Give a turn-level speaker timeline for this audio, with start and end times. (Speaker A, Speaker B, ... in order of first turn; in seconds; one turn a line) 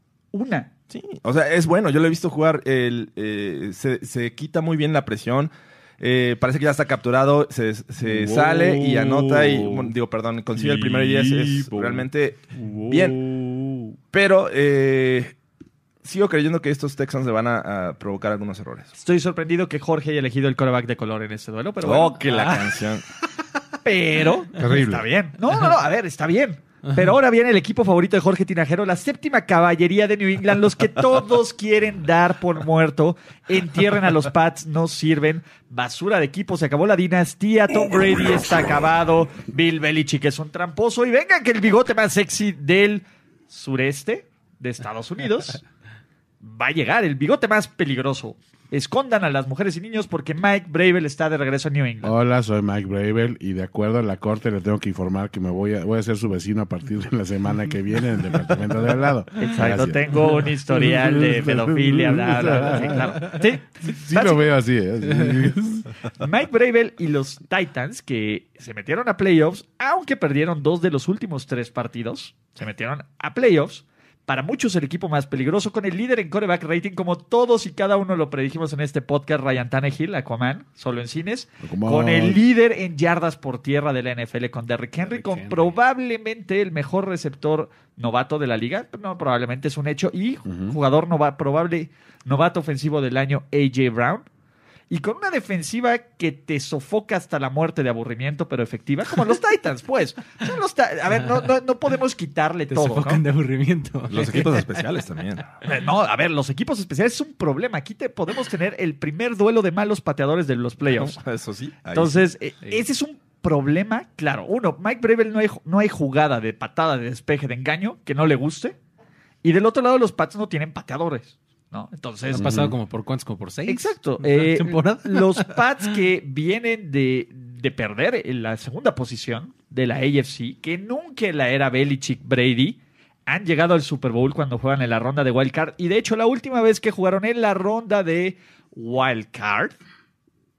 Speaker A: 0.3-0.7
Speaker B: 0.9-13.2
Speaker C: 8.1-8.4
Speaker A: 8.4-9.8
Speaker A: 10.7-11.9
Speaker A: 12.6-13.9
Speaker B: 14.1-15.3
Speaker B: 16.0-18.9
Speaker A: 18.9-22.5
Speaker B: 21.8-23.0
Speaker A: 23.8-45.6
Speaker C: 24.6-25.1
Speaker A: 46.4-52.1
Speaker C: 52.0-65.9
Speaker A: 59.4-64.5
Speaker A: 66.2-94.2
Speaker C: 81.6-82.4
Speaker D: 85.0-85.7
Speaker C: 90.5-90.8
Speaker A: 94.9-103.2
Speaker D: 102.7-104.8
Speaker B: 104.1-105.5
Speaker A: 105.6-111.2
Speaker B: 110.9-112.3
Speaker A: 111.9-118.8
Speaker A: 119.4-122.5
Speaker D: 122.3-125.8
Speaker C: 122.3-122.8
Speaker A: 123.7-139.8